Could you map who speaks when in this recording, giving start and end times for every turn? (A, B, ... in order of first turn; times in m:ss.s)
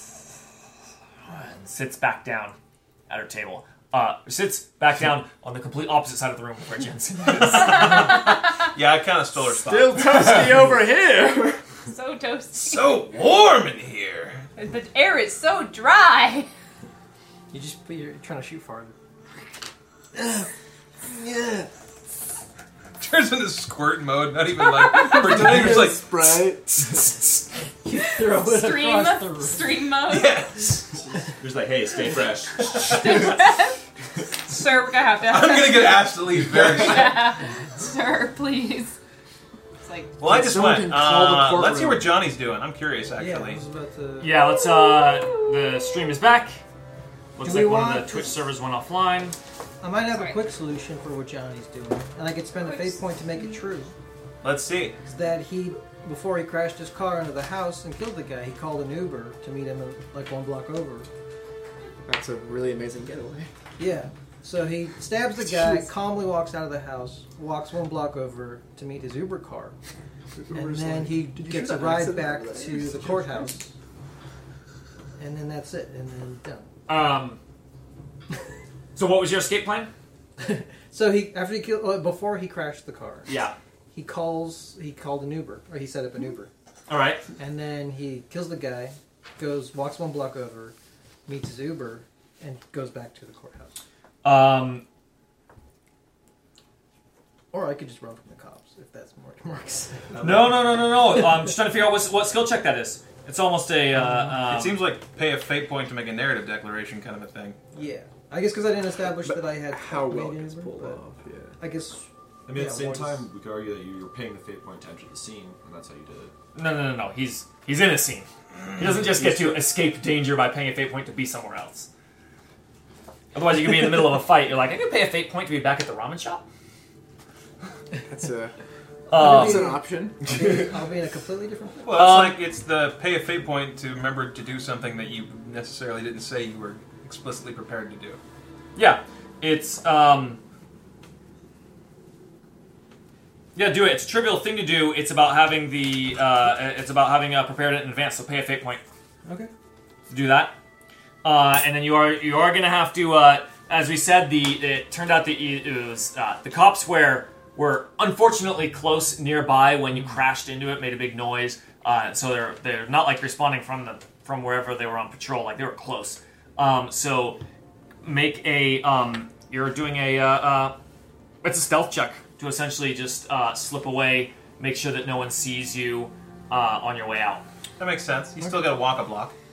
0:01.2-0:02.6 A
0:03.1-0:08.0 A
0:07.3-0:10.4 B
0:09.5-0:11.6 C
0:11.8-0:13.0 D
0:12.6-0:14.4 B
0:14.6-0:16.5 D
0:17.5-0:18.9 E
0:20.1-0:20.5 C
0:21.0-0:21.7 C
0:23.0-0:27.5 B
0:24.8-0:25.3 D
0:24.9-0:26.7 C
0:27.8-0:29.8 E
0:28.2-0:30.4 D
0:30.0-0:31.1 B
0:31.4-0:33.4 F
0:32.7-0:33.8 D
0:34.4-0:39.0 D
0:35.2-0:37.3 B
0:39.8-0:40.1 D
0:40.2-0:43.6 B
0:40.2-0:42.1 C
0:43.1-0:44.4 E
0:44.2-0:46.6 A
0:44.5-0:46.1 D
0:47.4-0:49.4 A
0:47.4-0:48.4 E
0:49.8-0:53.9 E
0:50.0-0:50.4 D
0:52.6-0:53.6 D
0:54.4-0:55.0 B
0:55.0-1:01.1 E
1:02.0-1:03.5 C
1:03.8-1:09.8 E
1:05.4-1:05.9 C
1:10.4-1:13.6 C
1:10.5-1:13.7 E
1:15.2-1:16.7 E
1:16.9-1:17.4 A
1:18.9-1:19.9 A
1:20.4-1:23.3 E
1:23.2-1:23.5 A
1:23.9-1:26.5 E
1:26.9-1:27.2 A
1:27.4-1:30.7 E
1:31.2-1:33.8 E
1:34.2-1:34.8 A
1:37.5-1:40.2 E
1:40.1-1:40.7 B
1:40.2-1:44.8 A
1:44.0-1:44.3 E
1:44.3-1:47.7 B
1:47.7-1:51.0 E
1:49.0-1:51.5 C
1:51.6-1:53.3 E
1:52.5-1:56.3 F
1:56.5-2:01.9 A
1:59.0-1:59.6 C
2:03.3-2:06.4 A
2:08.0-2:08.5 C
2:09.1-2:12.0 E
2:09.1-2:09.8 A
2:09.2-2:10.2 C
2:11.8-2:18.2 B
2:11.9-2:12.4 A
2:18.8-2:20.4 A
2:23.5-2:28.8 A
2:29.2-2:29.5 E
2:30.1-2:30.6 A
2:31.2-2:47.4 A
2:48.0-2:50.8 A
2:51.4-2:57.4 A
2:57.8-2:59.3 B